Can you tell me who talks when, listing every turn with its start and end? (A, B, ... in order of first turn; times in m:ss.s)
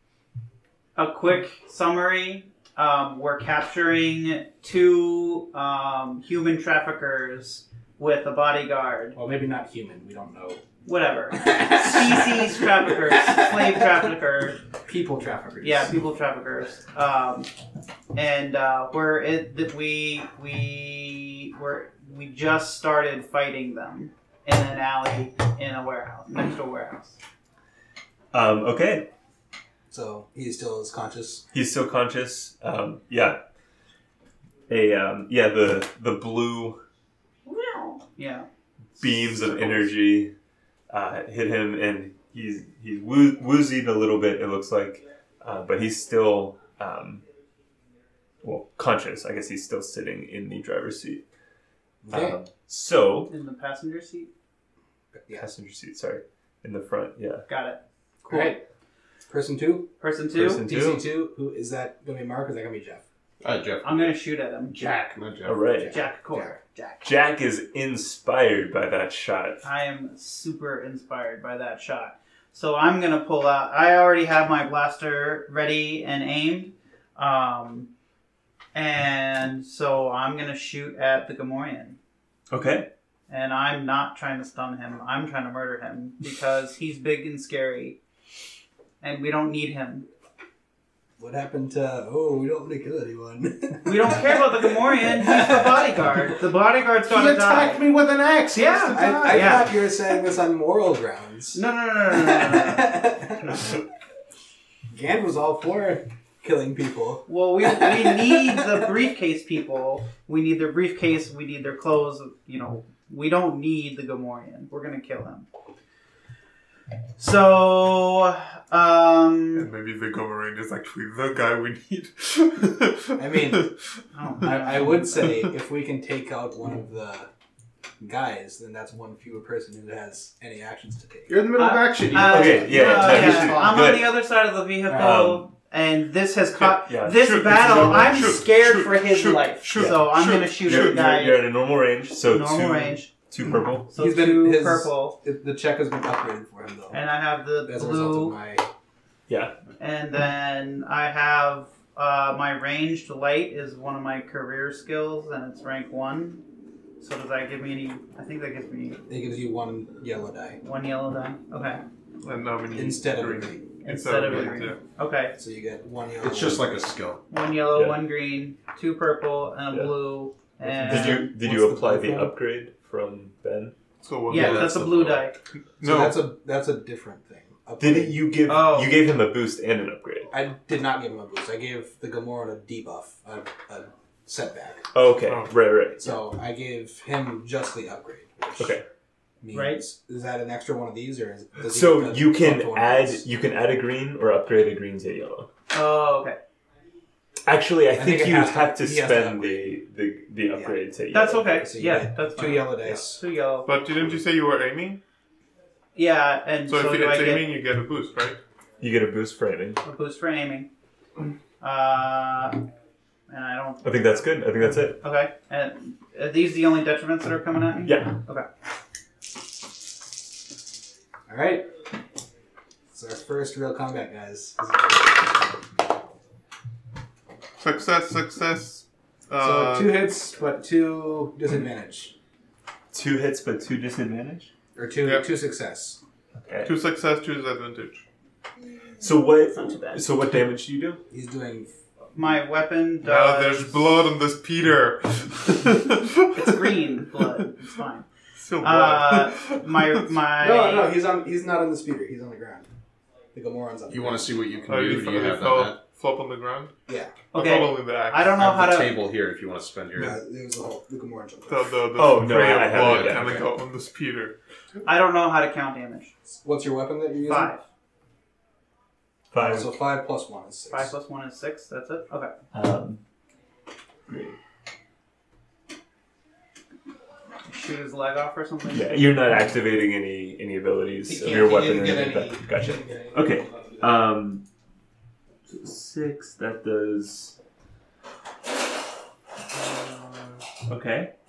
0:01.0-0:09.2 A
0:09.2-0:10.6 B
0:10.8-0:14.6 A
0:11.4-0:12.3 B
0:13.3-0:13.6 B
0:14.8-0:16.0 B
0:15.6-0:17.5 A
0:18.1-0:27.2 A
0:28.3-0:29.1 C
0:29.9-0:31.4 B
0:31.5-0:33.4 C
0:34.7-0:36.8 C
0:37.5-0:38.5 A
0:39.0-0:40.3 C
0:40.9-0:47.2 C
0:48.4-0:51.2 C
0:52.0-0:52.4 B
0:52.1-0:53.3 C
0:53.3-0:54.3 A
0:55.1-0:55.5 B
0:55.3-0:57.5 C
0:57.5-0:58.6 A
0:58.2-0:58.6 B
0:59.3-0:59.9 B
1:00.0-1:00.6 A
1:00.3-1:01.1 C
1:00.5-1:03.0 B
1:03.4-1:06.0 D
1:03.8-1:04.9 A
1:05.4-1:06.0 C
1:05.9-1:07.0 A
1:07.0-1:09.6 C
1:09.6-1:17.9 A
1:18.7-1:22.0 A
1:22.5-1:22.9 C
1:23.3-1:28.0 A
1:29.0-1:30.1 A
1:31.2-1:36.0 B
1:33.8-1:37.8 A
1:37.0-1:39.7 D
1:38.6-1:39.9 A
1:38.9-1:43.8 B
1:41.5-1:43.7 A
1:44.9-1:48.8 B
1:47.3-1:55.5 A
1:57.2-1:59.7 A
1:59.6-2:04.0 E
2:03.2-2:03.7 B
2:04.1-2:05.4 A
2:04.4-2:07.3 B
2:08.0-2:11.4 B
2:11.3-2:13.4 D
2:11.6-2:21.5 A
2:12.1-2:14.2 C
2:13.2-2:13.6 B
2:14.9-2:15.2 B
2:14.9-2:15.5 C
2:16.7-2:18.4 C
2:17.1-2:21.1 E
2:19.7-2:23.9 C
2:22.2-2:23.1 A
2:23.9-2:25.2 A
2:24.0-2:27.0 B
2:26.9-2:28.4 A
2:27.6-2:28.7 B
2:29.3-2:29.5 C
2:29.8-2:36.4 A
2:37.0-2:39.0 A
2:39.1-2:40.6 B
2:40.6-2:41.8 A
2:42.2-2:44.8 E
2:42.8-2:43.6 B
2:43.8-2:45.4 A
2:45.4-2:46.8 B
2:46.2-2:47.2 D
2:47.3-2:51.3 A
2:47.7-2:48.0 C
2:49.7-2:50.0 C
2:50.6-2:52.4 B
2:50.8-2:53.8 C
2:54.0-2:55.0 E
2:54.3-2:55.4 A
2:54.3-2:55.3 D
2:55.8-2:56.3 E
2:55.8-2:58.4 B
2:57.8-3:00.4 C
2:58.4-2:59.0 A
3:00.3-3:04.9 B
3:04.9-3:06.2 C
3:05.2-3:05.5 E
3:06.0-3:08.8 B
3:08.6-3:08.8 C
3:09.4-3:13.3 B
3:09.5-3:09.8 A
3:11.7-3:15.5 C
3:15.7-3:16.4 A
3:17.4-3:21.6 C
3:17.9-3:19.7 B
3:20.5-3:20.8 B
3:21.1-3:23.7 A
3:21.5-3:23.2 B
3:23.6-3:25.0 E
3:26.0-3:27.6 A
3:26.7-3:28.4 E
3:28.8-3:29.8 C
3:29.8-3:30.7 A
3:31.6-3:32.6 A
3:33.3-3:34.1 A
3:33.8-3:35.0 C
3:34.9-3:38.5 A
3:37.9-3:38.2 C
3:41.3-3:41.7 B
3:42.9-3:45.2 B
3:47.6-3:50.1 E
3:49.4-3:52.1 B
3:52.9-3:54.5 C
3:54.8-3:56.0 B
3:56.4-3:56.8 C
3:56.6-3:58.0 E
3:59.0-4:01.0 C
3:59.6-4:00.0 A
4:01.1-4:01.8 B
4:02.1-4:03.8 A
4:03.0-4:06.7 E
4:06.4-4:08.1 A
4:08.4-4:10.0 E
4:08.6-4:11.0 A
4:10.4-4:12.7 B
4:13.3-4:14.5 B
4:13.9-4:15.8 D
4:14.7-4:16.8 E
4:16.9-4:17.2 B
4:17.3-4:18.7 E
4:17.3-4:19.0 A
4:18.3-4:20.2 D
4:20.0-4:21.8 B
4:21.5-4:24.4 E
4:21.9-4:23.5 C
4:22.7-4:23.5 D
4:24.9-4:26.1 A
4:26.3-4:27.5 B
4:27.3-4:27.6 A
4:29.3-4:29.7 C
4:29.4-4:30.9 B
4:30.7-4:32.4 A
4:32.5-4:33.0 C
4:34.1-4:34.4 C
4:37.5-4:39.2 A
4:38.7-4:44.5 C
4:41.0-4:44.0 B
4:45.5-4:47.4 C
4:49.6-4:51.1 C